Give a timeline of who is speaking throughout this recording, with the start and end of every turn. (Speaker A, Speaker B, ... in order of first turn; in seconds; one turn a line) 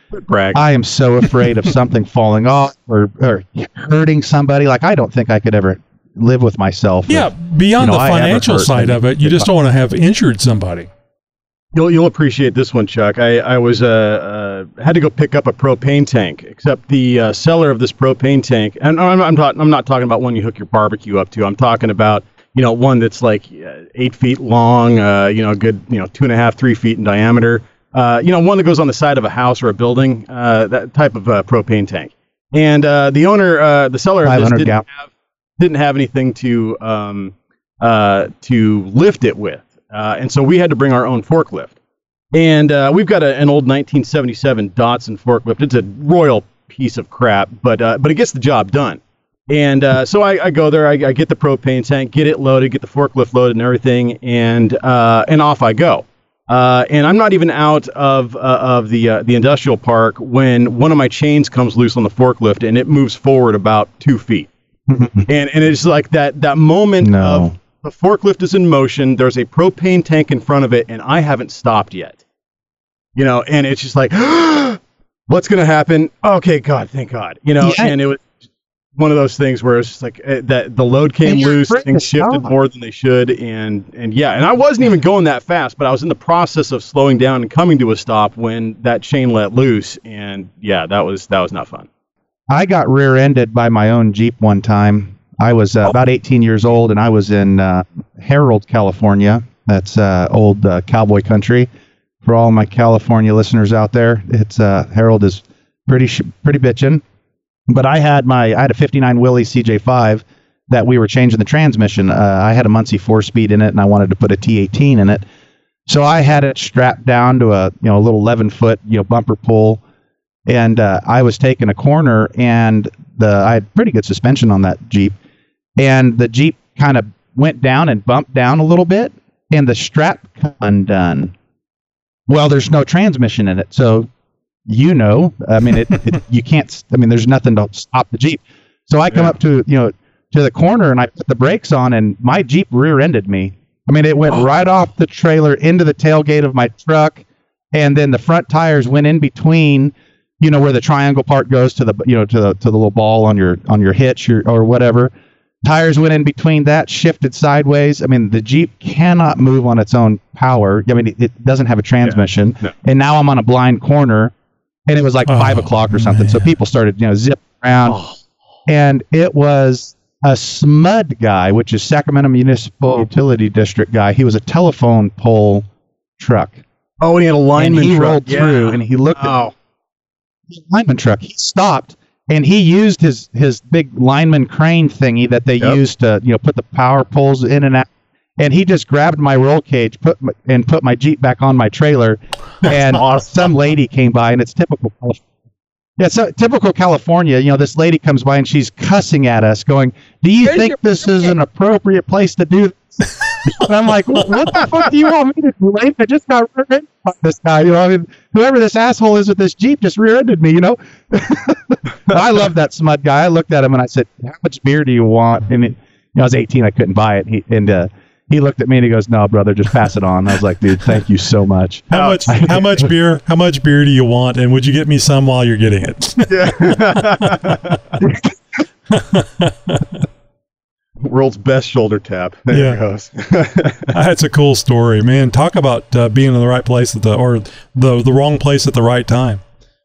Speaker A: 0.1-0.6
Speaker B: 0.5-9.5
Speaker C: 7.1-10.9
Speaker A: 11.7-41.8
Speaker B: 34.2-34.8
Speaker A: 42.3-64.5
Speaker B: 64.9-65.3
Speaker A: 65.3-72.2
Speaker B: 67.0-67.5
Speaker A: 73.2-78.2
Speaker B: 77.6-77.9
Speaker A: 79.0-91.9
Speaker B: 81.2-82.5
Speaker B: 92.5-101.7
Speaker B: 102.2-107.0
Speaker B: 107.7-115.2
Speaker B: 115.9-119.8
Speaker B: 120.5-125.2
Speaker B: 125.8-131.3
Speaker B: 132.3-134.1
Speaker B: 134.7-155.1
Speaker B: 155.6-164.3
Speaker A: 162.0-162.7
Speaker B: 164.9-168.0
Speaker C: 165.3-166.5
Speaker A: 167.9-168.2
Speaker B: 168.7-175.7
Speaker B: 176.2-176.6
Speaker A: 177.0-179.5
Speaker B: 177.6-179.3
Speaker B: 180.5-187.9
Speaker B: 188.4-195.2
Speaker A: 192.7-193.2
Speaker B: 196.0-222.9
Speaker A: 200.4-201.3
Speaker C: 221.9-227.0
Speaker A: 221.9-222.2
Speaker A: 226.3-227.8
Speaker C: 228.9-230.0
Speaker A: 231.0-233.9
Speaker C: 232.5-232.8
Speaker C: 233.9-239.4